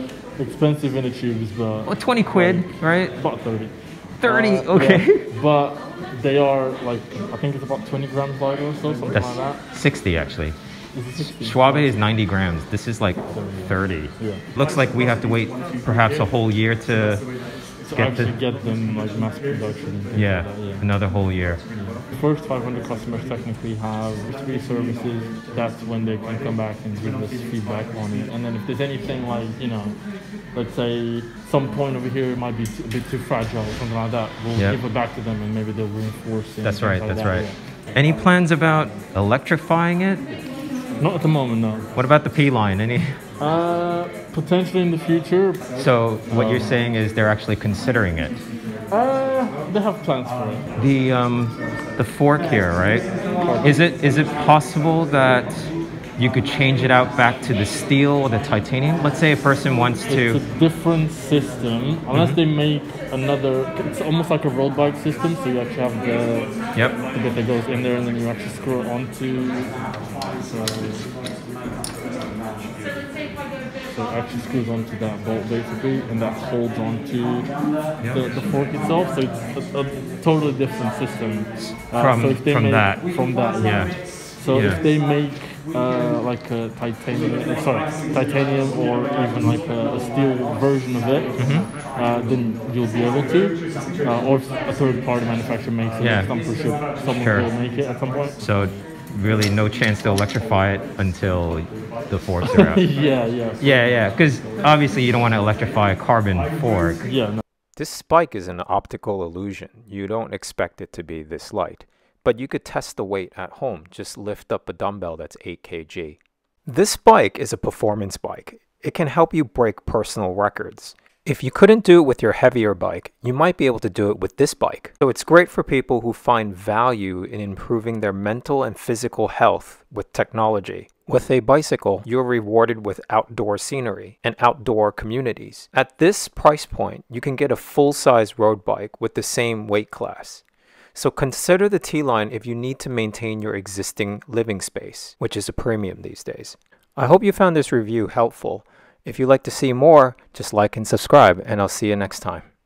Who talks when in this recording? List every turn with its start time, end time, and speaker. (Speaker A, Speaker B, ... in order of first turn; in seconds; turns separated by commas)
Speaker A: 0.4-9.6, Speaker B: 1.9-3.1, Speaker B: 4.2-5.2, Speaker B: 9.1-10.5, Speaker A: 10.9-12.1, Speaker B: 11.2-17.2, Speaker A: 13.3-14.4, Speaker A: 17.9-20.8, Speaker B: 17.9-18.3, Speaker B: 20.1-21.6, Speaker A: 21.7-30.0, Speaker A: 30.5-37.5, Speaker B: 36.6-40.2, Speaker A: 41.0-41.9, Speaker B: 41.9-43.1, Speaker A: 43.4-45.7, Speaker B: 45.8-48.4, Speaker A: 46.3-46.8, Speaker A: 48.9-50.6, Speaker B: 50.8-53.1, Speaker A: 53.4-53.8, Speaker B: 53.6-60.4, Speaker A: 60.1-66.5, Speaker B: 62.1-62.4, Speaker A: 67.1-69.8, Speaker A: 70.4-71.1, Speaker A: 73.9-77.5, Speaker A: 78.0-98.8, Speaker B: 81.9-84.8, Speaker B: 91.3-91.7, Speaker B: 96.0-96.3, Speaker B: 97.1-97.5, Speaker B: 98.4-102.8, Speaker A: 102.4-104.2, Speaker B: 103.6-107.0, Speaker A: 107.0-107.4, Speaker C: 107.8-140.4, Speaker C: 140.9-152.4